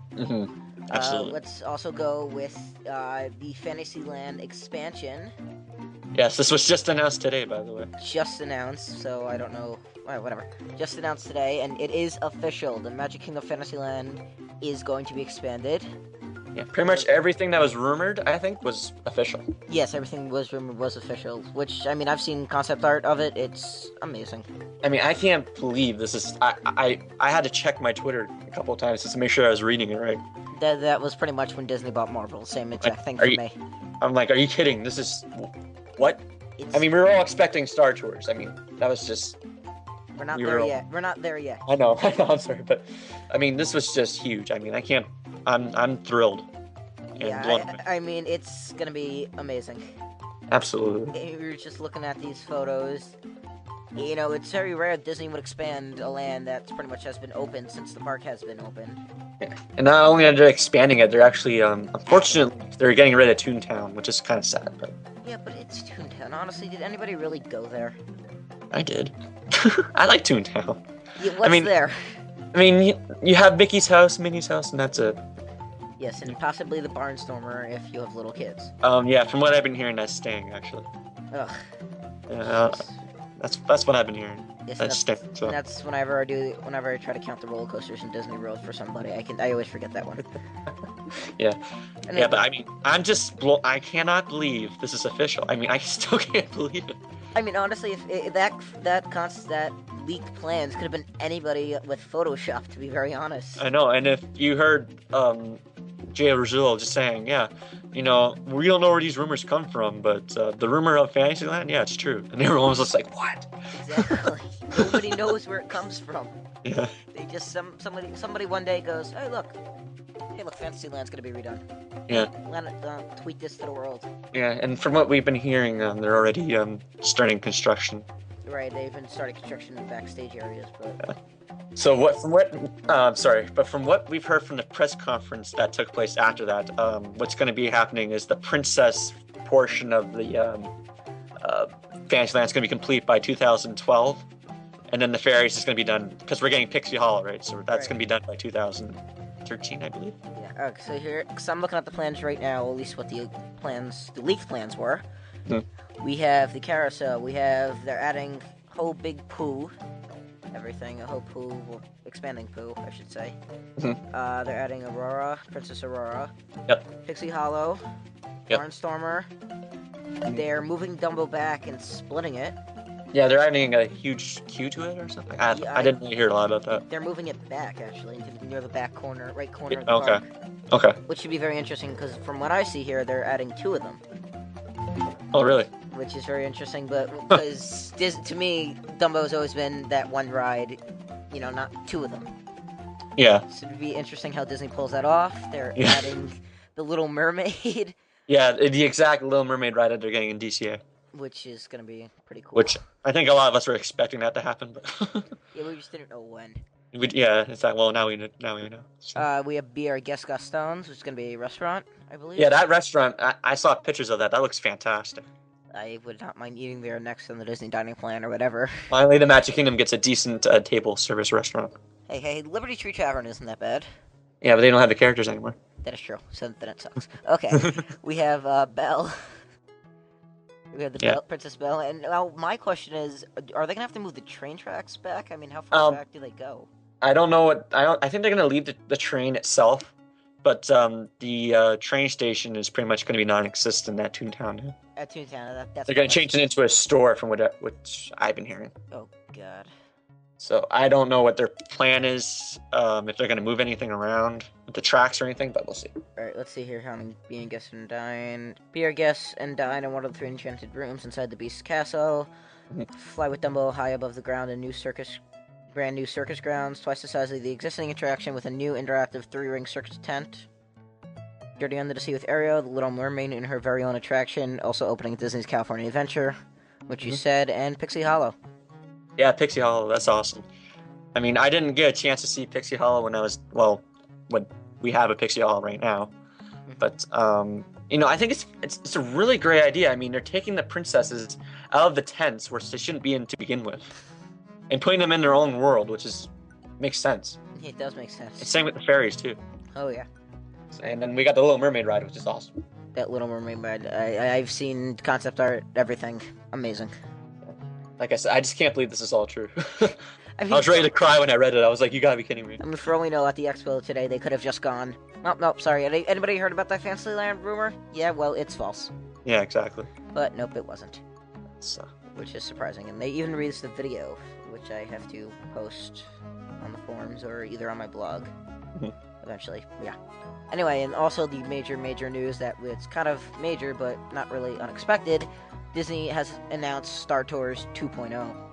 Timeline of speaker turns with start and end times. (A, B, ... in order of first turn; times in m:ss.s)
0:00.2-0:01.4 A
0:00.9-0:05.3 B
0:06.1-0:07.9 A
0:08.0-0:15.9 B
0:16.5-0:19.5 A
0:16.8-0:17.1 B
0:19.7-0:24.5 B
0:24.8-0:30.2 A
0:30.5-0:33.6 B
0:32.8-0:33.4 A
0:34.0-0:36.2 A
0:36.6-0:36.9 B
0:36.7-0:39.4 A
0:40.2-0:41.6 B
0:40.3-0:40.7 A
0:41.7-0:46.5 A
0:47.1-0:49.9 B
0:47.2-0:47.8 A
0:50.5-0:51.1 A
0:51.1-0:53.2 B
0:54.0-0:59.0 B
0:59.4-1:04.9 A
1:05.2-1:08.0 B
1:08.7-1:10.8 A
1:11.2-1:12.0 B
1:11.4-1:11.7 A
1:12.5-1:15.2 A
1:16.0-1:18.7 B
1:18.8-1:20.9 A
1:21.3-1:21.6 B
1:22.3-1:22.8 A
1:22.5-1:23.0 B
1:23.4-1:25.6 A
1:24.6-1:30.3 B
1:31.1-1:31.6 A
1:32.1-1:32.4 B
1:32.1-1:37.0 A
1:37.3-1:43.6 B
1:43.6-1:55.1 A
1:53.7-1:56.4 B
1:56.6-1:56.9 A
1:57.1-1:59.6 B
2:00.3-2:04.1 B
2:04.3-2:08.0 A
2:08.4-2:11.0 B
2:11.8-2:20.7 A
2:21.4-2:24.2 A
2:24.9-2:30.2 A
2:30.3-2:35.0 B
2:36.0-2:39.7 B
2:40.5-2:43.4 B
2:44.1-2:46.3 B
2:47.0-2:47.8 B
2:48.5-2:49.3 B
2:50.3-2:52.6 B
2:53.1-2:56.8 A
2:55.5-2:56.0 B
2:56.9-3:00.2 B
2:59.7-3:01.0 A
3:01.1-3:04.0 B
3:05.3-3:05.7 A
3:05.9-3:10.8 B
3:11.3-3:12.3 B
3:13.2-3:13.4 A
3:13.5-3:17.9 B
3:15.8-3:16.1 A
3:18.3-3:20.8 A
3:21.1-3:22.8 B
3:22.5-3:25.3 A
3:25.5-3:26.6 B
3:26.9-3:29.2 A
3:29.2-3:32.6 B
3:32.4-3:35.3 A
3:35.7-3:38.9 B
3:38.9-3:41.8 A
3:42.1-3:43.9 B
3:44.4-3:45.6 A
3:45.8-3:49.4 B
3:47.5-3:47.8 A
3:50.7-3:56.7 B
3:55.7-3:56.0 A
3:57.0-4:04.7 A
4:05.0-4:06.3 B
4:05.9-4:08.7 A
4:08.9-4:09.7 B
4:10.4-4:15.9 A
4:16.2-4:22.3 B
4:22.9-4:25.2 B
4:25.7-4:30.5 B
4:31.6-4:36.4 B
4:36.9-4:38.4 B
4:39.2-4:40.5 A
4:41.1-4:46.1 A
4:46.8-4:53.9 A
4:54.7-4:57.4 A
4:57.5-4:58.5 B
4:58.4-4:59.4 A
4:59.7-5:00.1 B
5:00.7-5:02.6 A
5:02.9-5:06.9 B
5:07.4-5:12.6 A
5:10.4-5:10.9 B
5:12.6-5:18.9 B
5:19.2-5:19.9 A
5:20.1-5:21.0 B
5:21.5-5:21.9 A
5:22.1-5:26.1 B
5:26.6-5:28.3 B
5:29.2-5:30.0 B
5:30.5-5:38.4 B